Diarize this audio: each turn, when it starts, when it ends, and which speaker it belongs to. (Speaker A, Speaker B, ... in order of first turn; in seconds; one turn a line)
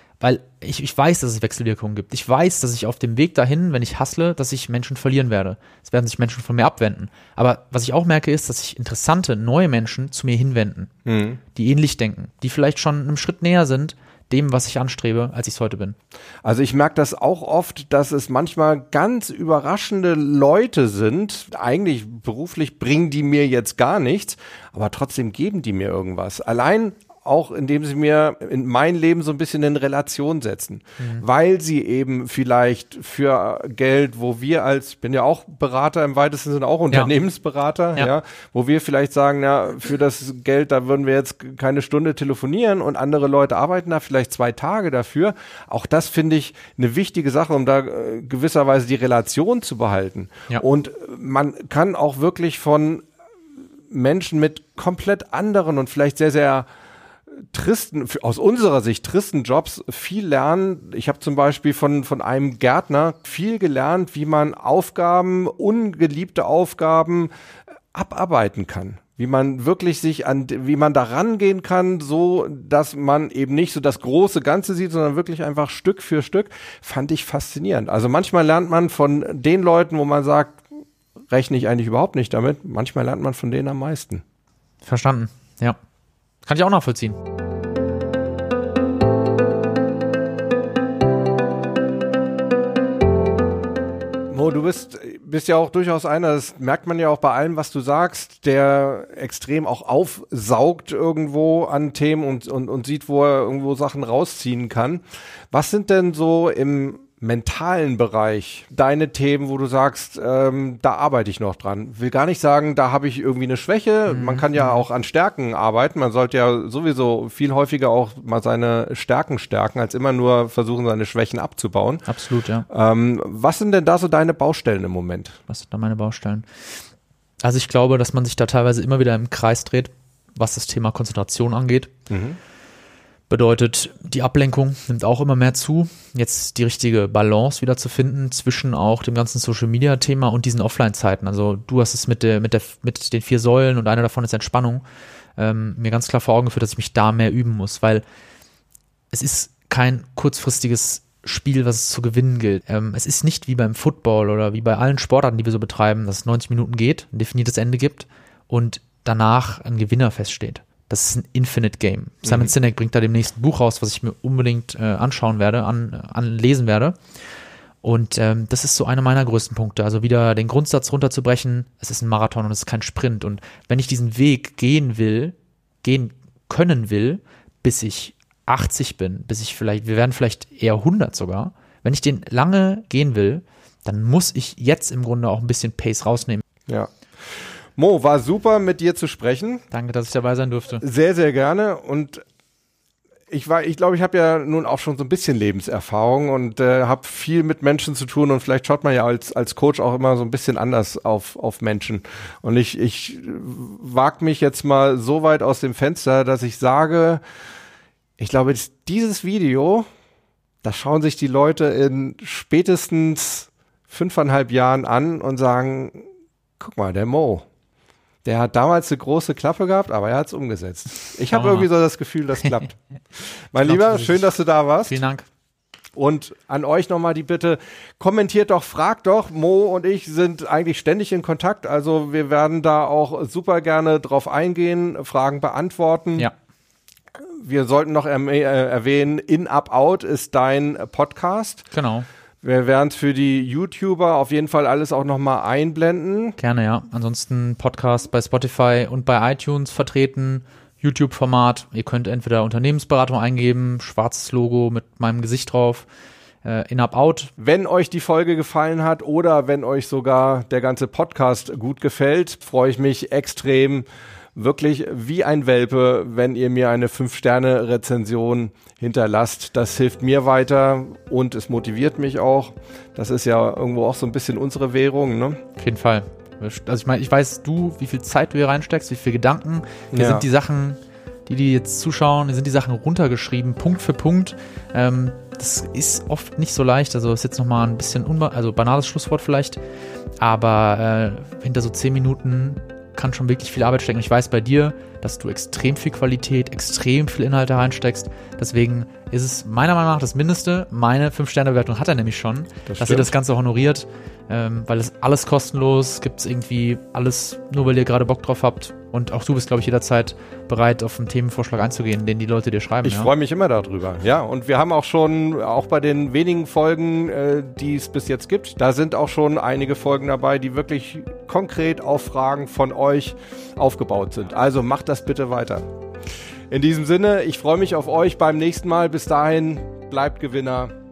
Speaker A: 0.2-10.9
Speaker B: 11.1-11.4
Speaker A: 11.5-16.0
Speaker B: 16.4-53.0
Speaker B: 53.9-56.7
Speaker B: 57.4-67.3
Speaker B: 67.9-80.6
Speaker B: 81.3-84.2
Speaker A: 84.8-85.8
Speaker A: 86.5-87.2
Speaker B: 94.3-122.0
Speaker A: 114.1-114.8
Speaker A: 122.0-122.7
Speaker B: 122.7-125.4
Speaker A: 125.5-126.5
Speaker A: 127.4-131.9
Speaker B: 132.1-132.4
Speaker A: 133.3-144.8
Speaker A: 145.4-148.0
Speaker A: 149.1-167.0
Speaker B: 162.2-162.5
Speaker A: 167.8-186.4
Speaker B: 186.7-189.6
Speaker A: 189.7-190.8
Speaker B: 190.8-192.2
Speaker B: 193.3-207.2
Speaker B: 208.2-209.8
Speaker B: 210.6-216.1
Speaker B: 216.6-217.4
Speaker B: 218.2-225.0
Speaker A: 221.3-221.7
Speaker A: 223.6-224.3
Speaker A: 224.8-225.2
Speaker B: 225.9-236.3
Speaker B: 237.4-241.7
Speaker A: 241.7-242.1
Speaker B: 242.4-246.4
Speaker A: 246.4-255.9
Speaker A: 256.4-257.3
Speaker B: 257.4-275.4
Speaker A: 275.6-289.6
Speaker B: 279.9-280.2
Speaker A: 290.2-313.1
Speaker B: 302.7-303.1
Speaker B: 312.8-325.6
Speaker B: 326.5-330.7